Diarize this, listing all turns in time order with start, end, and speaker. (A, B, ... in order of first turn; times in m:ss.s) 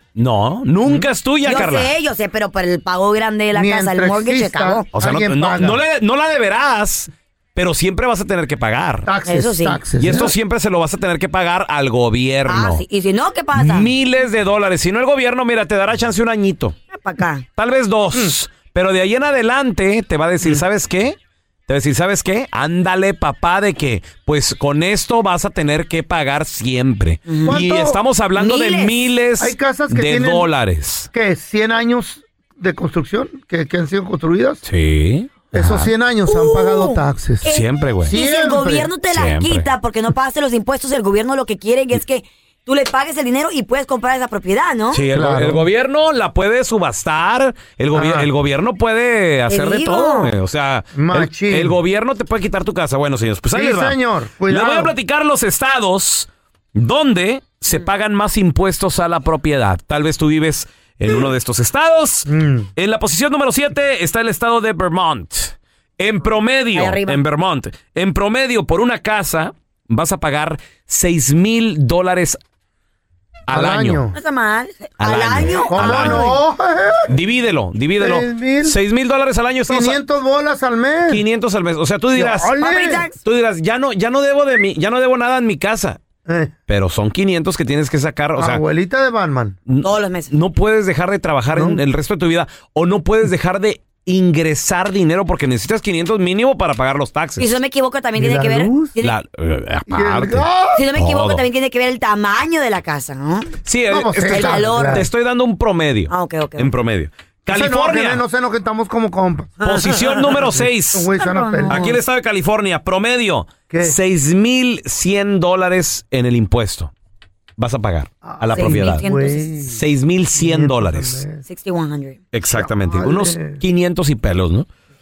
0:00.2-0:01.9 A
0:01.4-0:04.8 B
0:03.5-0:05.8 C
0:04.9-0:09.1 A
0:09.0-0:10.3 C
0:09.2-0:09.8 B
0:10.0-0:12.8 A
0:12.5-0:13.9 B
0:13.5-0:16.7 A
0:16.9-0:17.4 B
0:17.6-0:21.2 A
0:21.7-0:31.1 A
0:27.3-0:27.6 B
0:27.4-0:28.0 C
0:28.4-0:28.9 B
0:29.4-0:30.5 C
0:31.1-0:34.6 C
0:34.6-0:35.9 A
0:35.5-0:37.4 C
0:36.3-0:45.0 B
0:37.4-0:38.1 A
0:38.0-0:38.9 C
0:39.1-0:39.7 A
0:44.9-1:12.4 A
0:45.1-0:45.6 C
0:47.9-0:48.3 C
0:49.5-0:50.3 B
0:50.9-0:51.8 C
0:53.5-0:54.9 C
1:02.2-1:02.7 C
1:06.7-1:07.2 B
1:13.5-1:14.0 A
1:13.5-1:14.2 C
1:14.1-1:16.4 B
1:15.0-1:16.4 A
1:15.7-1:17.2 C
1:17.1-1:20.0 A
1:18.0-1:18.8 C
1:19.7-1:21.2 C
1:21.1-1:22.6 A
1:22.1-1:23.0 C
1:22.6-1:23.2 B
1:23.2-1:26.0 A
1:26.2-1:26.5 C
1:26.7-1:28.6 A
1:28.4-1:29.6 C
1:29.7-1:37.6 A
1:29.8-1:30.3 B
1:31.5-1:31.8 C
1:37.4-1:39.2 B
1:38.2-1:38.9 C
1:39.0-1:41.4 A
1:39.9-1:40.8 C
1:40.7-1:43.5 B
1:43.6-1:48.2 A
1:43.9-1:45.1 C
1:44.3-1:45.0 B
1:46.1-1:46.7 B
1:47.5-1:49.7 C
1:49.6-1:51.1 A
1:50.5-1:52.0 C
1:51.2-1:52.0 B
1:51.7-1:56.9 A
1:53.7-1:54.0 C
1:57.6-1:59.0 A
1:58.2-1:59.8 C
1:58.5-1:59.5 B
1:59.7-2:01.2 A
2:00.4-2:01.4 C
2:01.4-2:02.2 B
2:02.3-2:04.7 A
2:02.4-2:03.6 C